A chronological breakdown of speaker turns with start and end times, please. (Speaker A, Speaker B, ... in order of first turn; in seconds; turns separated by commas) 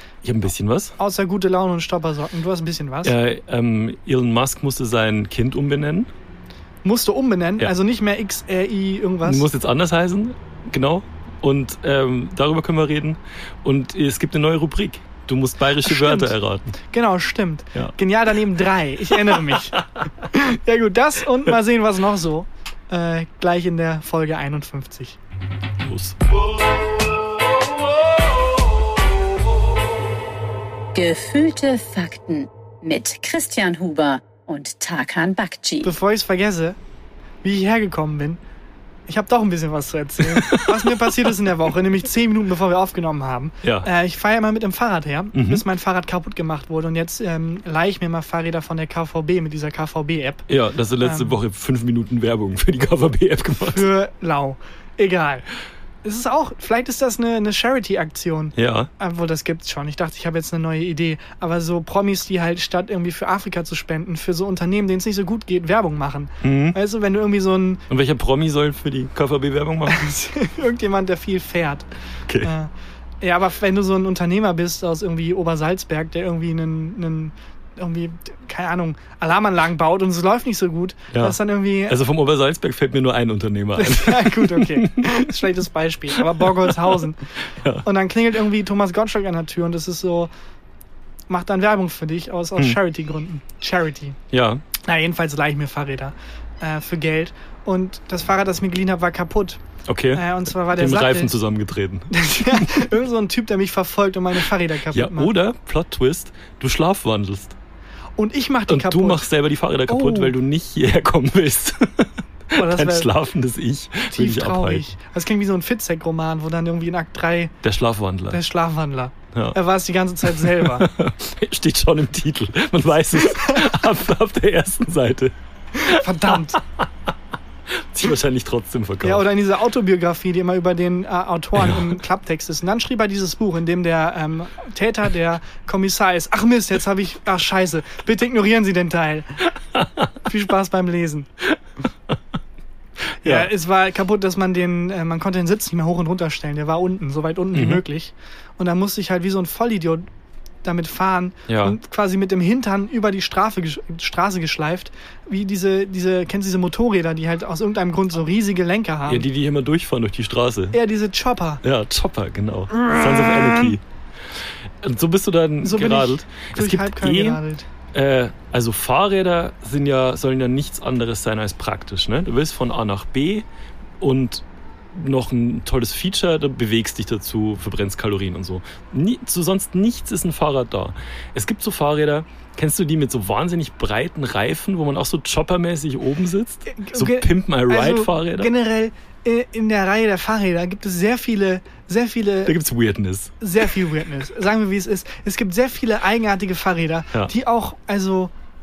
Speaker A: 0.2-1.0, Speaker B: 1.0-3.1, Speaker A: 3.0-6.1, Speaker B: 6.8-9.5, Speaker A: 9.2-16.8, Speaker B: 15.8-16.3, Speaker B: 16.9-25.2, Speaker A: 19.1-19.9, Speaker A: 25.8-26.2, Speaker C: 30.9-35.9, Speaker B: 35.8-36.8, Speaker B: 37.4-38.4, Speaker B: 39.1-50.5, Speaker A: 40.2-41.3, Speaker A: 43.6-43.9, Speaker A: 45.3-45.6, Speaker A: 50.5-53.9, Speaker B: 51.0-51.4, Speaker B: 53.6-55.5, Speaker B: 56.0-67.8, Speaker A: 58.6-58.9, Speaker A: 66.4-66.8, Speaker A: 67.9-70.0, Speaker B: 69.9-71.9, Speaker B: 72.4-82.0, Speaker A: 81.1-85.5, Speaker B: 83.8-87.3, Speaker A: 86.2-87.0, Speaker A: 87.6-87.9, Speaker B: 87.8-90.3, Speaker B: 91.3-94.2, Speaker A: 94.3-94.7, Speaker B: 94.8-99.6, Speaker A: 99.9-102.9, Speaker B: 100.1-101.3, Speaker B: 102.1-105.3, Speaker A: 104.9-107.6, Speaker B: 108.2-109.3, Speaker A: 108.7-114.8, Speaker B: 109.9-110.3, Speaker B: 112.5-113.1, Speaker B: 114.1-117.5, Speaker A: 117.6-118.4, Speaker B: 118.3-120.9, Speaker A: 120.2-126.9, Speaker B: 125.8-126.6, Speaker A: 127.7-129.3, Speaker B: 129.0-139.5, Speaker A: 139.8-140.1, Speaker B: 140.2-141.3, Speaker A: 143.2-143.5, Speaker B: 143.2-150.1, Speaker A: 147.5-147.8, Speaker B: 150.6-159.3, Speaker A: 151.5-151.8, Speaker A: 159.1-160.8, Speaker B: 160.7-161.6, Speaker A: 161.6-163.8, Speaker B: 162.7-163.8, Speaker A: 164.8-167.4, Speaker B: 165.6-167.7, Speaker A: 167.9-173.5, Speaker A: 174.0-188.5, Speaker B: 186.7-192.6, Speaker A: 192.5-193.3, Speaker B: 193.4-198.3